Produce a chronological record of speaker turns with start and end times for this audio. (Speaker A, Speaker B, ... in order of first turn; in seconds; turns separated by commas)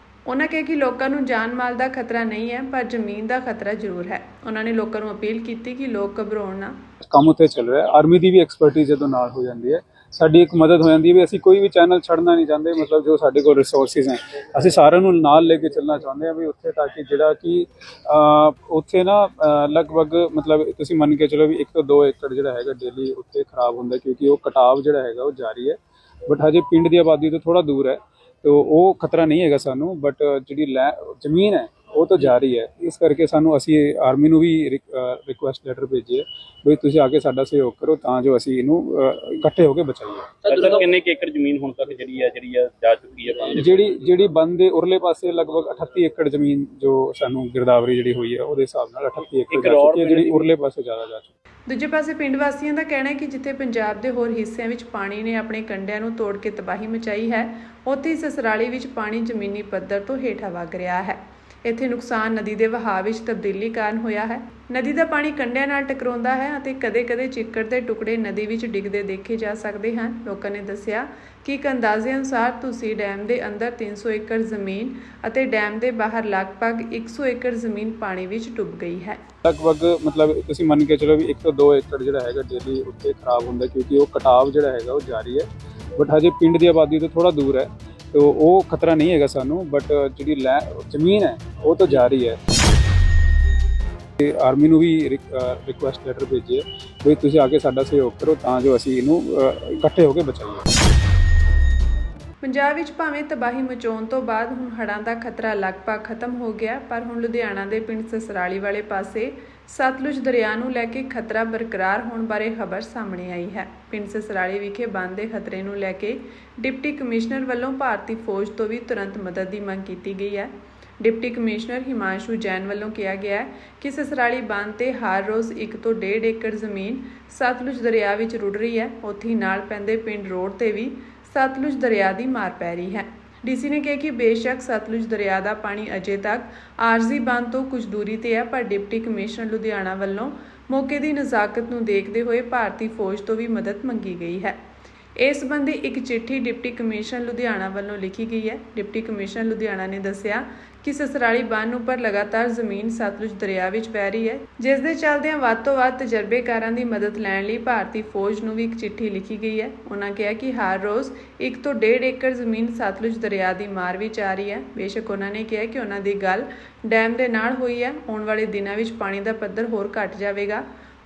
Speaker A: 0.3-6.8, Speaker B: 7.0-40.4, Speaker C: 40.4-44.0, Speaker B: 43.6-51.3, Speaker C: 49.5-50.5, Speaker A: 51.7-79.2, Speaker B: 79.4-92.4, Speaker B: 94.2-100.7, Speaker A: 102.4-144.6, Speaker A: 145.2-170.7